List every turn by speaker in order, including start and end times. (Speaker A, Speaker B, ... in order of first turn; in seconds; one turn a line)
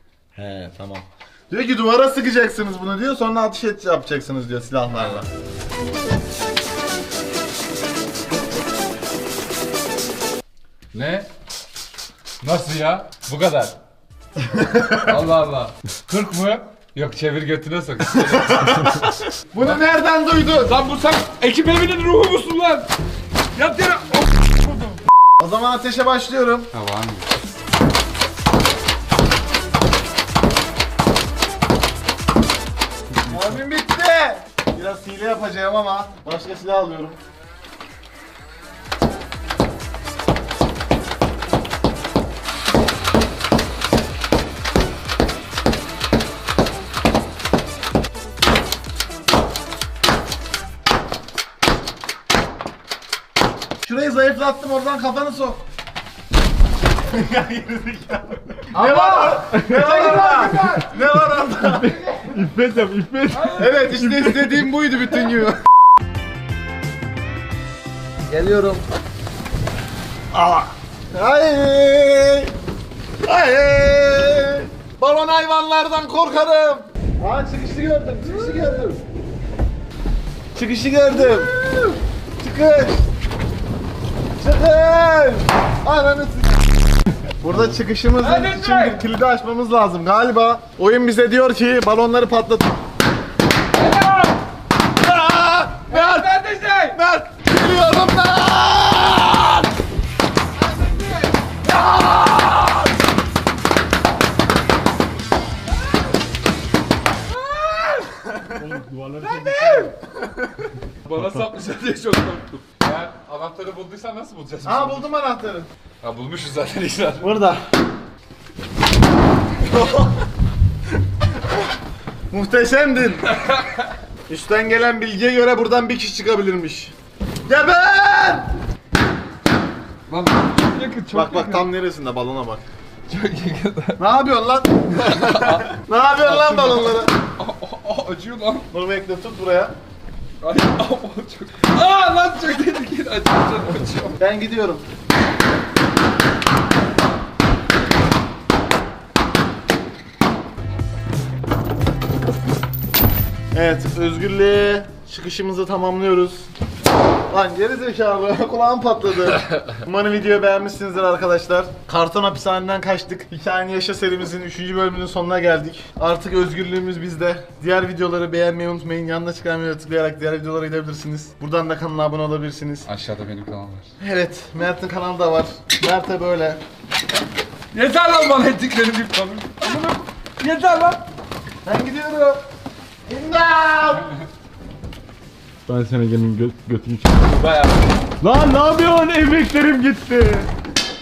Speaker A: 0.3-5.3
Speaker B: 10.9-11.3
Speaker B: 12.4-13.8
Speaker A: 14.4-15.1
Speaker B: 14.9-18.9
Speaker A: 18.1-20.8
Speaker B: 19.6-19.8
Speaker B: 20.6-22.9
Speaker B: 23.5-25.0
Speaker A: 25.4-26.7
Speaker B: 26.7-27.3
Speaker A: 33.3-37.2
Speaker A: 53.8-55.6
Speaker A: 57.0-62.1
Speaker B: 58.8-60.6
Speaker C: 59.0-61.0
Speaker C: 61.6-64.7
Speaker B: 63.3-63.8
Speaker A: 63.5-65.6
Speaker A: 68.2-68.8
Speaker A: 70.3-72.5
Speaker A: 73.2-79.0
Speaker A: 80.5-81.6
Speaker A: 82.4-83.1
Speaker A: 84.4-86.7
Speaker A: 87.4-92.7
Speaker B: 88.2-89.0
Speaker B: 93.7-94.4
Speaker A: 95.0-96.3
Speaker B: 95.8-97.0
Speaker A: 96.9-99.7
Speaker B: 100.7-101.2
Speaker A: 101.7-102.8
Speaker B: 107.3-108.1
Speaker A: 108.3-108.5
Speaker C: 108.5-110.0
Speaker B: 109.2-109.9
Speaker B: 111.0-115.0
Speaker A: 114.6-115.7
Speaker B: 116.0-117.4
Speaker A: 117.2-117.6
Speaker A: 119.6-120.2
Speaker A: 122.3-123.3
Speaker B: 123.2-123.9
Speaker A: 124.3-126.9
Speaker A: 127.5-128.5
Speaker B: 130.1-131.6
Speaker A: 131.1-132.6
Speaker B: 133.1-134.0
Speaker A: 134.0-137.1
Speaker B: 134.9-138.7
Speaker A: 138.7-139.8
Speaker B: 140.4-144.2
Speaker A: 144.2-144.8
Speaker A: 153.5-156.5
Speaker A: 157.3-172.9
Speaker B: 172.8-173.9
Speaker A: 174.0-176.6
Speaker B: 177.7-181.0
Speaker A: 181.6-182.4
Speaker A: 183.1-184.1
Speaker C: 185.7-187.2
Speaker B: 187.2-187.9
Speaker C: 188.2-190.5